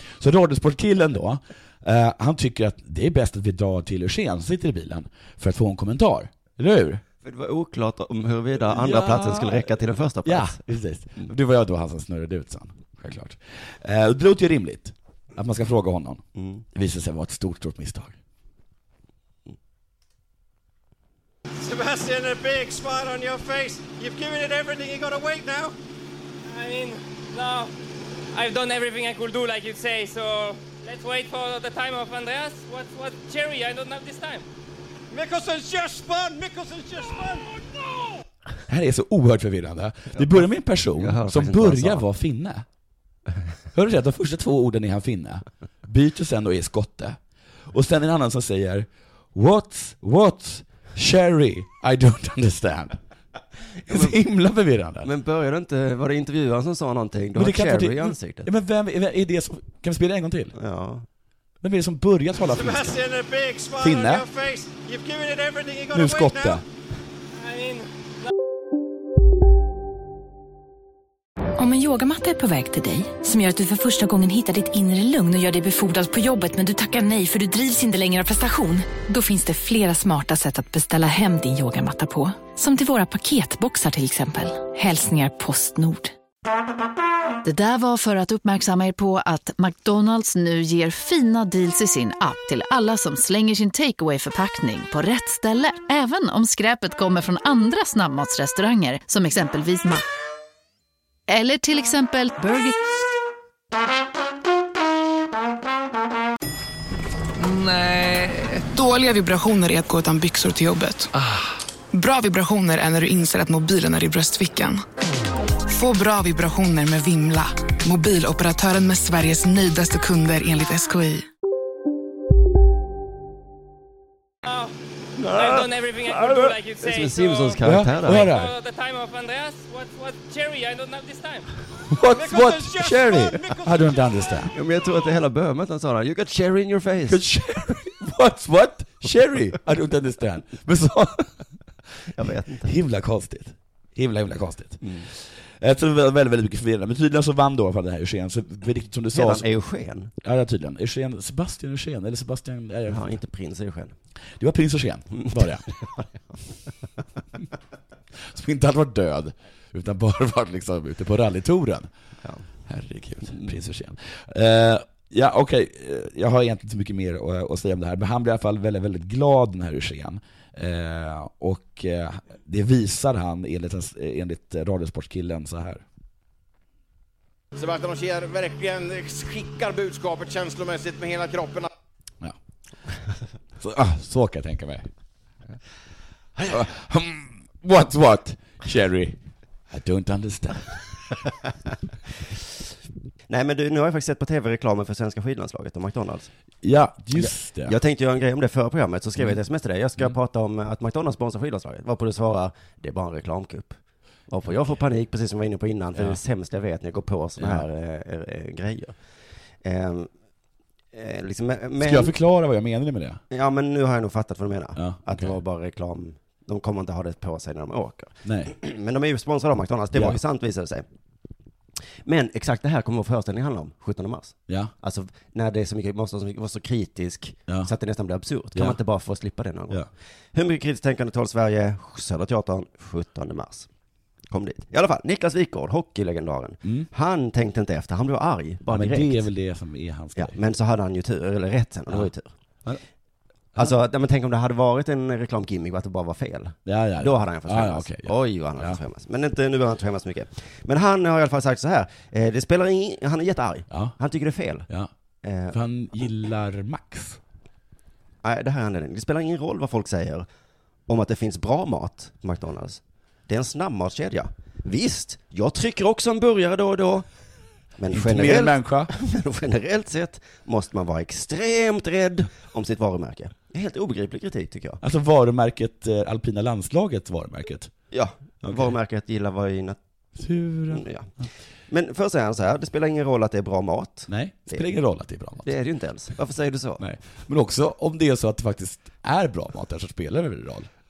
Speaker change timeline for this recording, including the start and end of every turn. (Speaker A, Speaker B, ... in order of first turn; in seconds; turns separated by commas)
Speaker A: 0.2-7.0, Speaker B: 7.2-10.6, Speaker A: 8.7-9.7, Speaker A: 10.2-18.2, Speaker B: 16.4-16.6, Speaker C: 21.6-25.7, Speaker D: 26.5-27.7, Speaker D: 28.3-34.5, Speaker C: 35.1-37.5, Speaker A: 38.7-42.7, Speaker B: 40.1-40.4, Speaker B: 41.0-42.0, Speaker A: 43.7-47.2, Speaker A: 47.7-53.0, Speaker B: 53.9-54.2, Speaker A: 53.9-55.1, Speaker B: 55.0-58.5, Speaker A: 57.4-60.5, Speaker B: 60.5-61.1, Speaker A: 61.6-63.0, Speaker C: 62.5-66.6, Speaker A: 63.8-64.2, Speaker A: 65.9-66.6, Speaker D: 67.4-68.3, Speaker E: 71.6-86.1, Speaker F: 87.4-100.0, Speaker F: 101.3-102.8, Speaker G: 108.7-111.1, Speaker G: 111.9-114.8, Speaker G: 115.7-121.3, Speaker D: 124.5-124.7, Speaker B: 125.2-128.3, Speaker D: 125.3-131.5, Speaker A: 127.6-128.5, Speaker A: 131.9-134.5, Speaker C: 132.1-134.0, Speaker B: 134.5-137.2, Speaker A: 137.1-141.3, Speaker B: 142.2-142.8, Speaker A: 142.6-149.5, Speaker B: 149.1-150.1, Speaker A: 150.2-153.2, Speaker B: 152.9-153.9, Speaker A: 154.4-155.7, Speaker B: 155.2-156.1, Speaker A: 158.2-161.9, Speaker A: 162.7-175.8, Speaker H: 177.6-181.7, Speaker A: 183.6-184.9, Speaker A: 186.4-189.2, Speaker A: 189.7-190.8, Speaker B: 193.3-196.3, Speaker A: 196.6-197.8, Speaker B: 197.2-203.8, Speaker B: 204.3-208.9, Speaker A: 207.4-207.6, Speaker B: 209.6-210.1, Speaker B: 210.9-212.1, Speaker A: 211.8-213.2, Speaker B: 213.3-220.8, Speaker A: 214.8-215.4, Speaker A: 218.2-218.5, Speaker A: 219.9-220.2, Speaker B: 222.1-233.7, Speaker A: 224.5-224.7, Speaker B: 234.3-239.3, Speaker A: 236.6-236.9, Speaker A: 238.7-240.4, Speaker B: 240.2-242.3, Speaker B: 243.6-254.7, Speaker A: 246.7-248.8, Speaker A: 253.7-254.0, Speaker B: 255.2-255.6, Speaker A: 255.5-257.2, Speaker B: 258.2-260.3, Speaker B: 260.9-267.1, Speaker B: 267.8-274.8, Speaker A: 267.9-268.9, Speaker A: 274.8-277.7, Speaker B: 277.9-279.8, Speaker A: 278.4-278.7, Speaker A: 280.2-280.9, Speaker B: 280.7-281.1, Speaker B: 281.7-284.7, Speaker A: 284.1-285.5, Speaker B: 285.4-286.8, Speaker A: 286.8-290.7